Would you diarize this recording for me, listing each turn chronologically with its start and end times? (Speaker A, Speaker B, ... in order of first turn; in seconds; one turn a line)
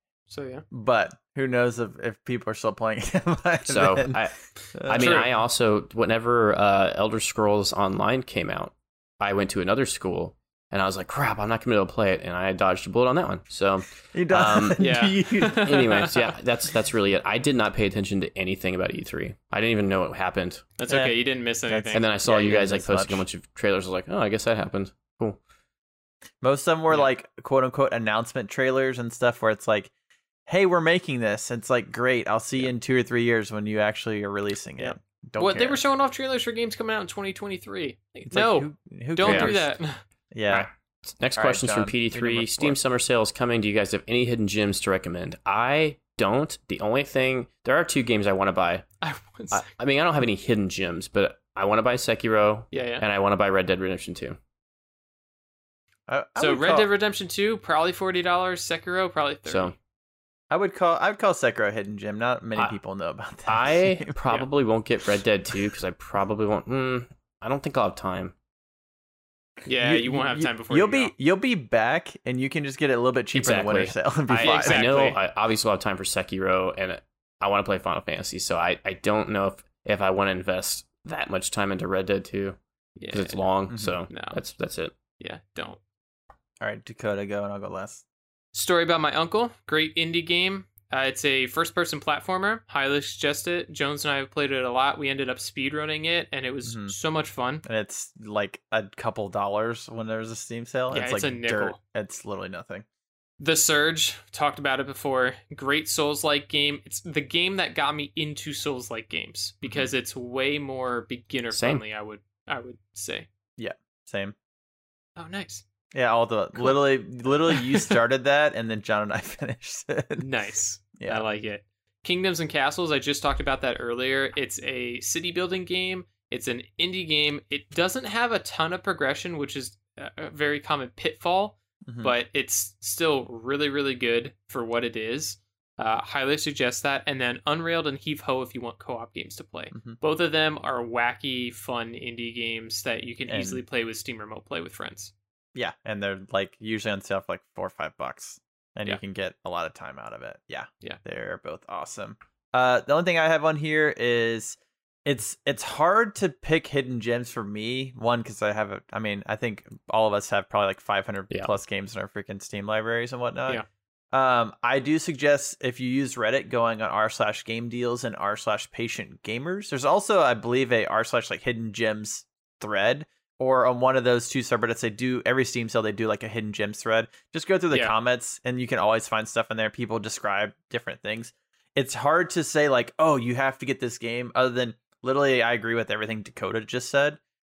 Speaker A: 0.3-0.6
Speaker B: 0.7-4.2
Speaker C: 3.7-14.8
Speaker B: 4.7-5.2
Speaker A: 4.9-5.3
Speaker B: 14.1-15.8
Speaker A: 14.8-16.3
Speaker C: 15.6-20.7
Speaker A: 20.8-22.5
Speaker B: 20.9-23.2
Speaker C: 21.9-25.4
Speaker B: 26.4-29.9
Speaker B: 30.5-35.8
Speaker A: 34.8-40.0
Speaker B: 38.3-39.8
Speaker C: 39.2-39.5
Speaker B: 40.3-40.7
Speaker C: 40.5-48.9
Speaker B: 41.4-42.8
Speaker A: 49.0-49.6
Speaker C: 49.5-54.4
Speaker A: 52.7-53.0
Speaker B: 56.1-56.9
Speaker A: 56.4-59.7
Speaker C: 59.5-59.7
Speaker B: 60.5-64.1
Speaker C: 63.5-68.3
Speaker A: 69.7-71.1
Speaker B: 69.8-74.8
Speaker C: 73.3-82.6
Speaker A: 74.4-75.2
Speaker A: 83.0-83.4
Speaker C: 83.1-84.9
Speaker B: 83.7-84.0
Speaker A: 84.1-84.4
Speaker A: 85.2-85.8
Speaker B: 86.6-88.0
Speaker A: 88.5-97.6
Speaker B: 96.7-96.9
Speaker B: 97.6-102.8
Speaker A: 100.9-101.8
Speaker A: 103.4-113.3
Speaker B: 109.6-109.9
Speaker C: 111.5-111.8
Speaker B: 113.6-114.3
Speaker A: 115.2-115.6
Speaker B: 115.9-120.3
Speaker A: 117.5-117.9
Speaker A: 120.2-145.1
Speaker B: 121.0-121.2
Speaker B: 131.8-132.1
Speaker B: 139.7-140.0
Speaker B: 143.3-143.6
Speaker B: 145.5-187.2